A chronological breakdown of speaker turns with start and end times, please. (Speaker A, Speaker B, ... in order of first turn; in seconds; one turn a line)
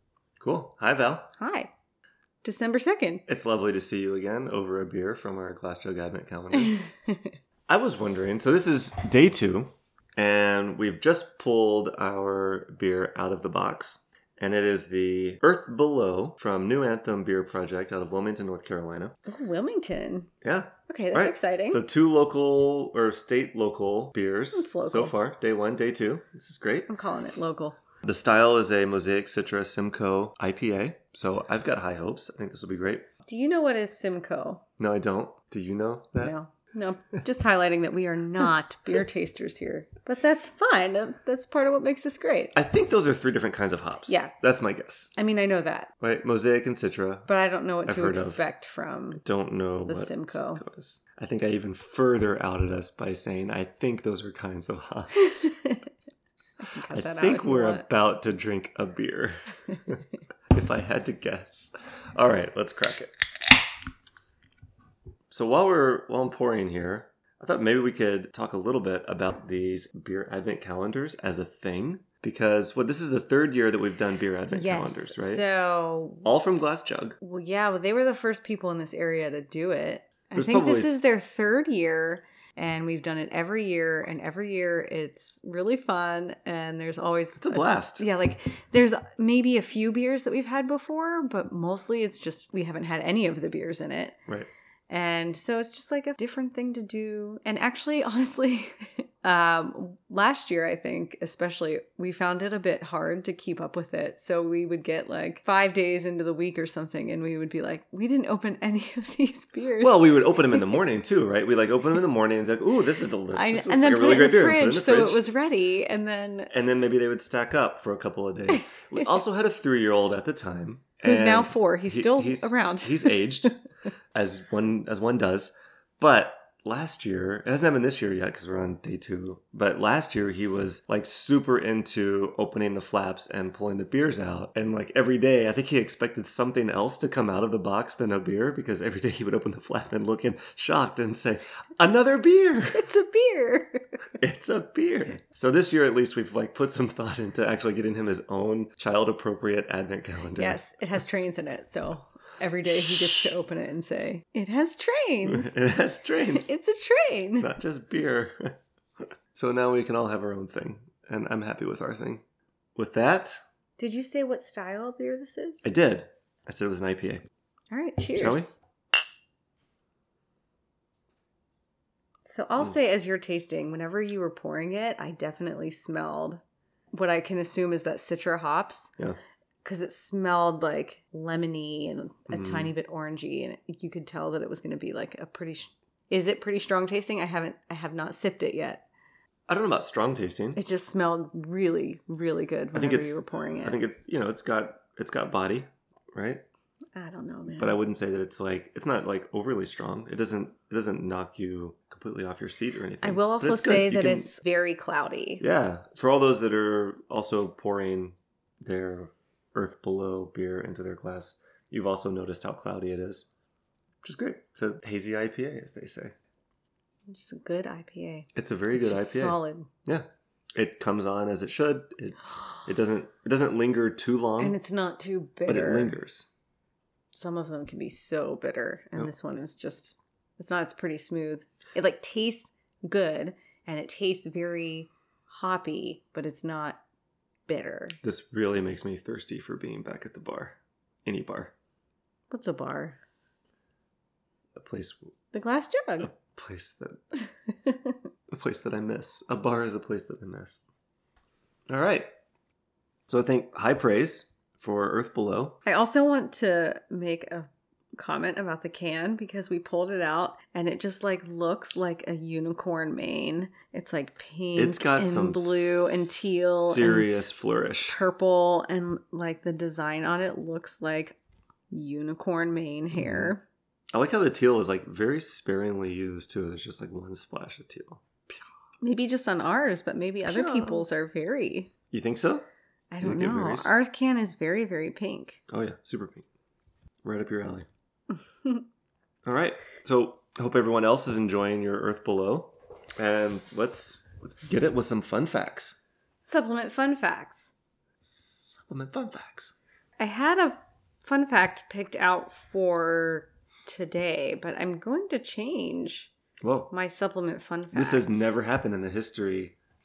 Speaker A: 0.4-1.3
Speaker B: 1.4-1.7
Speaker B: 2.4-3.2
Speaker A: 3.3-6.8
Speaker B: 6.7-7.3
Speaker A: 7.7-19.2
Speaker B: 19.3-20.3
Speaker A: 20.4-26.9
Speaker B: 20.9-21.8
Speaker B: 24.5-25.1
Speaker B: 26.9-27.8
Speaker A: 28.0-33.1
Speaker B: 33.2-34.6
Speaker A: 34.8-36.3
Speaker B: 36.2-42.5
Speaker A: 42.5-45.1
Speaker B: 44.1-44.3
Speaker B: 45.2-45.9
Speaker A: 46.0-47.3
Speaker B: 47.3-49.2
Speaker A: 47.9-48.4
Speaker A: 49.2-55.5
Speaker B: 49.9-50.6
Speaker B: 55.2-55.9
Speaker B: 56.6-57.9
Speaker A: 56.9-63.1
Speaker A: 65.3-75.4
Speaker B: 74.5-76.3
Speaker A: 76.2-77.2
Speaker B: 77.2-94.2
Speaker A: 80.3-80.9
Speaker A: 87.4-88.0
Speaker B: 94.9-110.8
Speaker A: 109.8-115.2
Speaker B: 113.3-116.5
Speaker A: 116.5-123.6
Speaker B: 121.0-123.2
Speaker A: 124.1-142.8
Speaker B: 142.7-143.9
Speaker A: 144.2-150.6
Speaker B: 150.4-155.5
Speaker A: 152.8-153.3
Speaker A: 155.2-156.5
Speaker B: 156.3-157.5
Speaker A: 157.4-158.6
Speaker A: 159.3-162.2
Speaker A: 162.8-163.4
Speaker B: 163.8-165.7
Speaker A: 165.6-167.2
Speaker B: 167.7-168.5
Speaker A: 168.2-168.6
Speaker B: 172.2-176.4
Speaker B: 176.9-178.9
Speaker B: 179.6-188.9
Speaker A: 182.3-182.7
Speaker A: 189.5-190.6
Speaker B: 190.6-193.8
Speaker A: 192.7-196.4
Speaker B: 197.0-197.8
Speaker A: 197.6-204.3
Speaker B: 203.0-205.4
Speaker A: 205.4-213.3
Speaker A: 214.0-216.2
Speaker B: 217.1-219.7
Speaker A: 218.3-224.6
Speaker B: 224.4-225.9
Speaker A: 225.5-226.3
Speaker B: 227.1-236.8
Speaker B: 237.5-238.0
Speaker A: 238.0-241.5
Speaker B: 242.3-243.0
Speaker A: 244.6-245.1
Speaker B: 245.3-246.1
Speaker A: 246.0-247.0
Speaker B: 247.7-247.9
Speaker A: 248.3-250.6
Speaker A: 251.7-252.1
Speaker A: 253.1-255.6
Speaker B: 255.7-267.1
Speaker A: 264.6-268.0
Speaker B: 267.9-271.2
Speaker B: 271.7-273.4
Speaker A: 272.9-273.3
Speaker A: 273.9-278.0
Speaker B: 278.8-281.7
Speaker A: 280.2-280.9
Speaker A: 281.9-282.5
Speaker B: 282.9-285.4
Speaker A: 283.0-283.7
Speaker A: 285.5-286.3
Speaker A: 287.0-287.7
Speaker A: 289.2-295.8
Speaker B: 296.2-297.5
Speaker A: 298.1-299.5
Speaker B: 300.0-306.1
Speaker A: 306.4-306.7
Speaker B: 306.7-308.2
Speaker A: 307.7-309.6